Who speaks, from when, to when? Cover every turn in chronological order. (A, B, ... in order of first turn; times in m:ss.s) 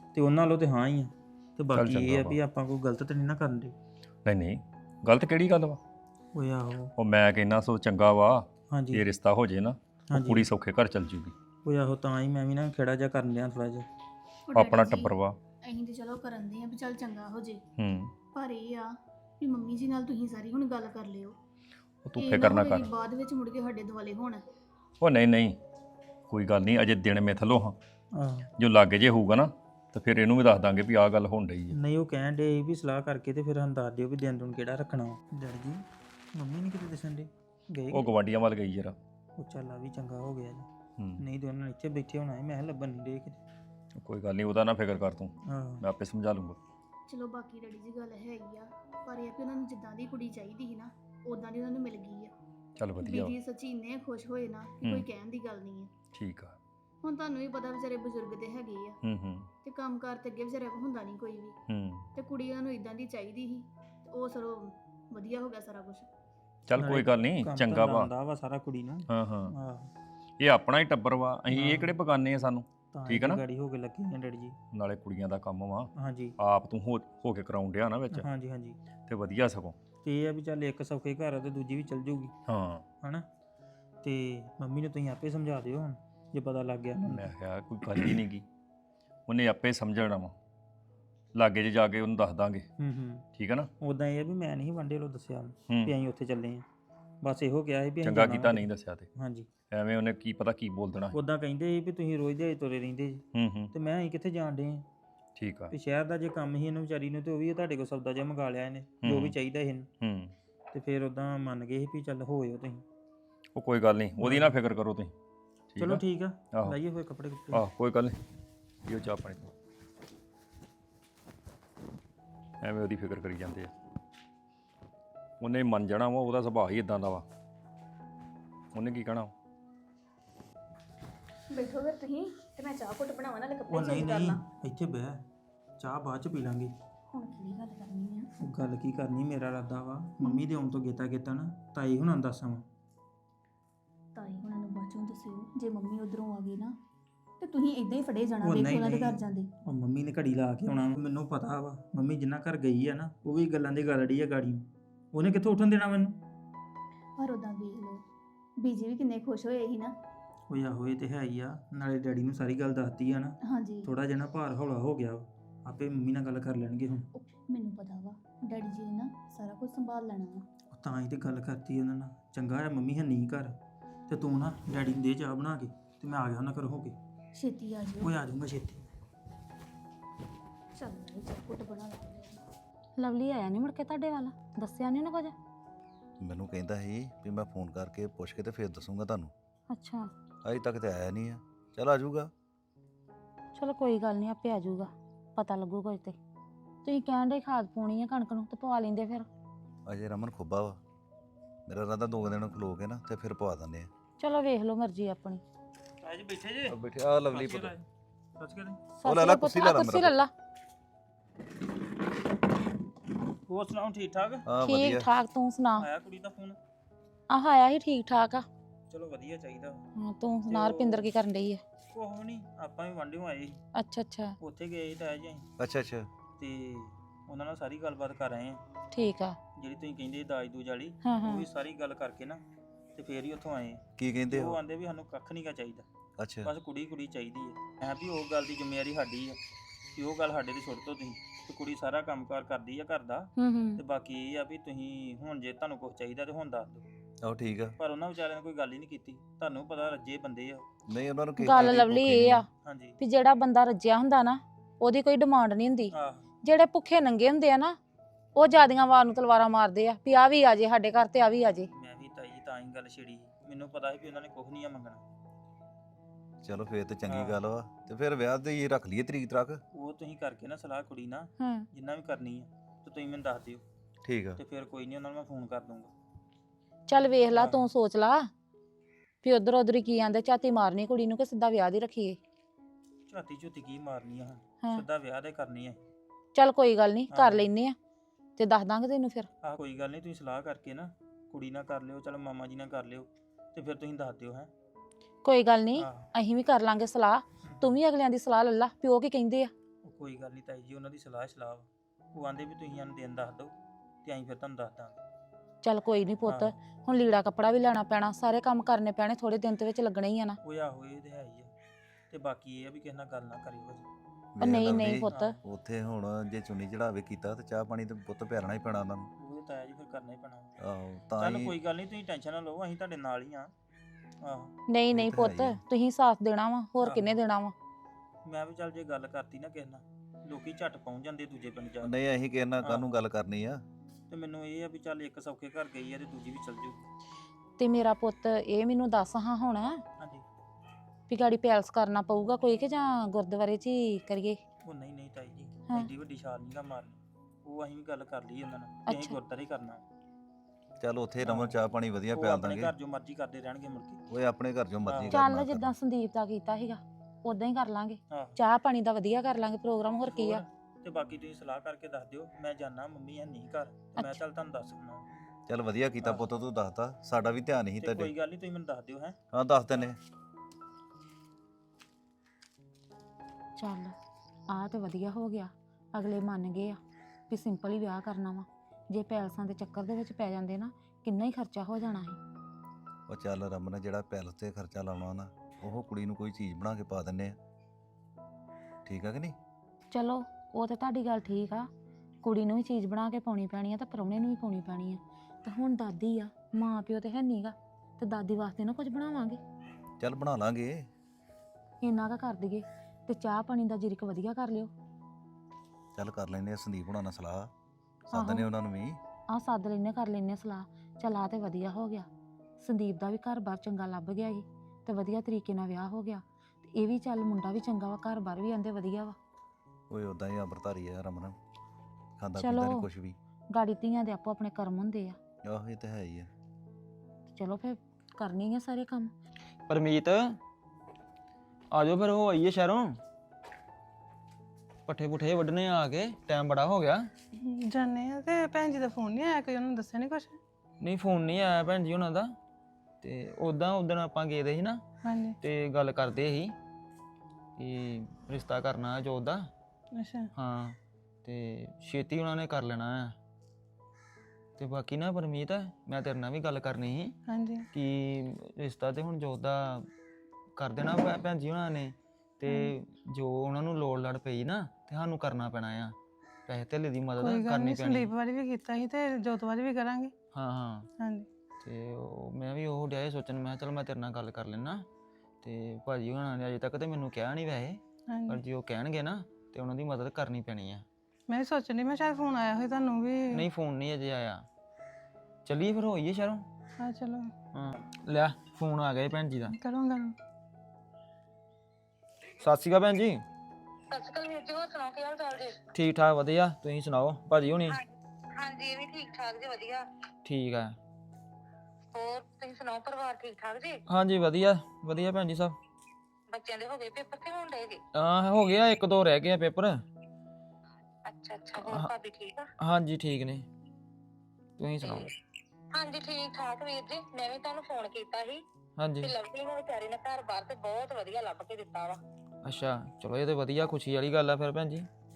0:00.1-0:03.7 A
0:01.7-0:02.4 B
0:04.2-0:05.8 B
0:06.3-0:06.9 A
0:07.0-0:11.3 B
0:08.7-0:09.0 A
0:10.1-0:10.5 A
0:11.6-0:13.9 A
0:14.4-0:15.1 C
0:14.5-0:15.4 B
0:15.6-0:17.6 C
0:17.8-0:18.1 B
0:18.3-0:21.4 C
0:22.0-0:22.9 B
0:22.2-0:24.4 C
0:25.0-0:25.6 B
0:26.3-0:27.8 B
0:28.1-0:28.5 A
0:28.6-0:31.8 B
0:31.7-0:35.8 A
0:36.3-0:38.1 A
0:37.9-0:39.0 B
0:39.4-0:40.7 A
0:41.2-0:43.4 A
0:44.0-0:46.6 B
0:45.5-0:45.8 A
0:47.1-0:52.3 C
0:52.8-0:53.3 B
0:53.0-0:55.9 C
0:56.1-0:56.6 B
0:57.0-0:59.0 C
0:59.0-0:59.5 B
0:59.6-1:01.6 C
1:01.7-1:02.1 B
1:02.1-1:06.1 C
1:06.7-1:08.1 B
1:06.8-1:09.9 A
1:09.1-1:09.5 B
1:10.4-1:13.4 B
1:11.5-1:11.9 A
1:12.9-1:14.6 A
1:14.7-1:18.3 B
1:15.9-1:16.4 A
1:18.1-1:18.8 A
1:19.1-1:19.8 B
1:20.0-1:22.3 A
1:22.5-1:22.8 B
1:24.0-1:27.3 A
1:27.0-1:28.4 B
1:29.3-1:30.3 B
1:31.3-1:32.6 B
1:32.8-1:33.2 A
1:33.4-1:33.7 B
1:33.8-1:36.6 A
1:37.2-1:39.5 A
1:38.0-1:39.1 B
1:39.7-1:41.2 B
1:41.1-1:44.8 A
1:43.3-1:43.7 B
1:45.4-1:45.7 B
1:45.7-1:49.9 A
1:49.0-1:49.3 B
1:50.0-1:50.3 B
1:50.7-1:52.8 A
1:53.5-1:55.1 B
1:54.2-1:54.5 A
1:55.7-1:56.8 B
1:55.8-1:57.6 A
1:57.5-1:58.1 B
1:58.8-1:59.5 B
2:02.6-2:03.7 B
2:05.4-2:07.2 B
2:08.7-2:09.3 B
2:11.5-2:14.4 C
2:13.7-2:15.2 A
2:15.8-2:16.7 A
2:17.1-2:18.3 C
2:18.4-2:22.6 A
2:24.1-2:26.8 C
2:27.4-2:29.5 C
2:28.4-2:36.2 A
2:37.2-2:38.0 C
2:38.6-2:40.0 C
2:40.5-2:47.1 A
2:43.4-2:43.9 C
2:47.1-2:50.5 C
2:50.7-2:53.6 A
2:54.1-2:57.0 A
2:57.3-2:58.1 C
2:58.0-2:58.9 A
3:00.7-3:02.4 C
3:03.0-3:05.3 D
3:06.2-3:09.3 E
3:09.7-3:10.1 D
3:10.4-3:12.3 E
3:13.5-3:16.2 D
3:16.8-3:19.3 D
3:19.8-3:20.8 E
3:21.7-3:23.9 E
3:24.2-3:25.4 D
3:26.0-3:26.8 A
3:26.7-3:27.7 E
3:27.3-3:27.8 A
3:28.4-3:28.8 A
3:29.0-3:30.3 D
3:29.0-3:30.2 E
3:33.5-3:34.5 A
3:34.5-3:35.1 E
3:34.6-3:35.8 D
3:35.8-3:36.6 A
3:37.3-3:38.4 D
3:38.9-3:39.8 A
3:40.0-3:41.6 D
3:40.5-3:41.1 A
3:41.9-3:43.6 A
3:43.7-3:44.4 D
3:44.4-3:45.4 A
3:45.6-3:46.1 E
3:46.4-3:48.6 A
3:48.9-3:49.4 D
3:49.6-3:52.4 A
3:51.0-3:51.4 D
3:52.9-3:55.8 A
3:54.0-3:54.6 E
3:56.2-3:56.5 E
3:56.4-3:59.4 A
4:00.0-4:06.8 A
4:03.4-4:03.8 D
4:07.2-4:07.7 E
4:07.8-4:10.6 A
4:10.9-4:12.4 E
4:11.4-4:12.5 D
4:12.6-4:13.0 A
4:13.0-4:15.9 D
4:15.9-4:16.3 A
4:16.4-4:17.8 D
4:18.4-4:21.7 D
4:21.7-4:25.0 A
4:26.4-4:29.6 E
4:27.1-4:27.4 A
4:29.7-4:33.6 A
4:31.4-4:31.6 D
4:34.0-4:34.4 E
4:34.4-4:35.9 A
4:36.9-4:38.3 D
4:37.3-4:37.7 A
4:39.2-4:42.2 D
4:43.1-4:45.8 A
4:46.3-4:47.8 D
4:47.1-4:47.5 A
4:48.4-4:49.3 D
4:49.4-4:54.5 A
4:55.2-4:59.5 D
4:55.7-4:56.1 A
4:57.5-4:57.8 A
4:59.8-5:03.5 A
5:04.0-5:05.0 A
5:05.6-5:10.4 D
5:06.2-5:06.5 A
5:10.4-5:11.5 A
5:12.1-5:13.8 A
5:14.4-5:19.1 E
5:14.4-5:15.4 D
5:15.1-5:15.4 A
5:19.2-5:20.5 A
5:20.6-5:21.5 E
5:21.2-5:23.5 A
5:24.2-5:24.5 A
5:24.7-5:27.5 D
5:24.9-5:25.6 E
5:26.8-5:27.2 A
5:28.2-5:31.9 A
5:31.8-5:33.6 E
5:32.6-5:33.0 A
5:34.1-5:36.8 A
5:37.6-5:39.8 D
5:40.0-5:40.2 A
5:41.1-5:44.4 D
5:44.6-5:49.8 A
5:48.9-5:49.2 D
5:50.8-5:52.7 E
5:51.2-5:51.6 A
5:52.1-5:54.0 A
5:54.1-5:55.7 E
5:54.9-5:55.2 A
5:55.1-6:00.4 D
5:58.1-5:58.4 A
6:00.0-6:05.0 A
6:05.5-6:08.1 E
6:06.0-6:06.2 A
6:07.8-6:09.1 A
6:09.3-6:10.0 E
6:13.6-6:13.9 D
6:14.5-6:16.8 D
6:17.3-6:22.2 D
6:23.1-6:27.4 E
6:28.8-6:29.3 E
6:29.9-6:31.7 D
6:32.2-6:39.4 D
6:40.0-6:40.8 E
6:41.8-6:44.7 D
6:45.9-6:47.5 E
6:48.1-6:49.0 E
6:48.1-6:48.5 D
6:49.3-6:52.1 D
6:52.6-6:59.2 D
6:59.9-7:01.4 E
7:02.2-7:03.2 E
7:02.4-7:02.8 D
7:03.5-7:05.2 D
7:05.4-7:06.3 E
7:07.3-7:09.1 D
7:09.7-7:10.4 F
7:11.7-7:13.0 F
7:14.9-7:17.1 F
7:17.4-7:20.4 G
7:20.8-7:22.4 F
7:23.0-7:24.8 F
7:25.0-7:25.4 G
7:25.3-7:26.6 F
7:27.6-7:29.5 F
7:29.9-7:30.3 G
7:30.3-7:33.2 F
7:34.6-7:39.9 F
7:37.3-7:37.6 G
7:40.6-7:46.0 F
7:46.5-7:48.1 F
7:47.3-7:50.1 G
7:50.3-7:50.9 F
7:51.0-7:51.3 G
7:51.6-7:54.8 F
7:55.4-8:00.8 F
7:58.1-7:58.4 G
8:01.3-8:03.4 G
8:03.3-8:04.4 F
8:05.4-8:06.4 F
8:06.8-8:07.3 G
8:07.5-8:09.6 F
8:09.6-8:10.1 G
8:12.4-8:13.2 F
8:13.9-8:15.6 H
8:15.7-8:17.7 F
8:17.6-8:19.8 H
8:20.2-8:20.8 F
8:21.9-8:23.8 H
8:23.9-8:25.6 F
8:26.3-8:27.8 H
8:27.9-8:29.8 F
8:31.0-8:32.5 H
8:31.6-8:31.9 F
8:32.6-8:33.4 F
8:34.6-8:35.0 F
8:34.8-8:35.1 H
8:35.7-8:38.4 H
8:38.8-8:39.1 F
8:39.0-8:42.0 H
8:42.4-8:44.9 F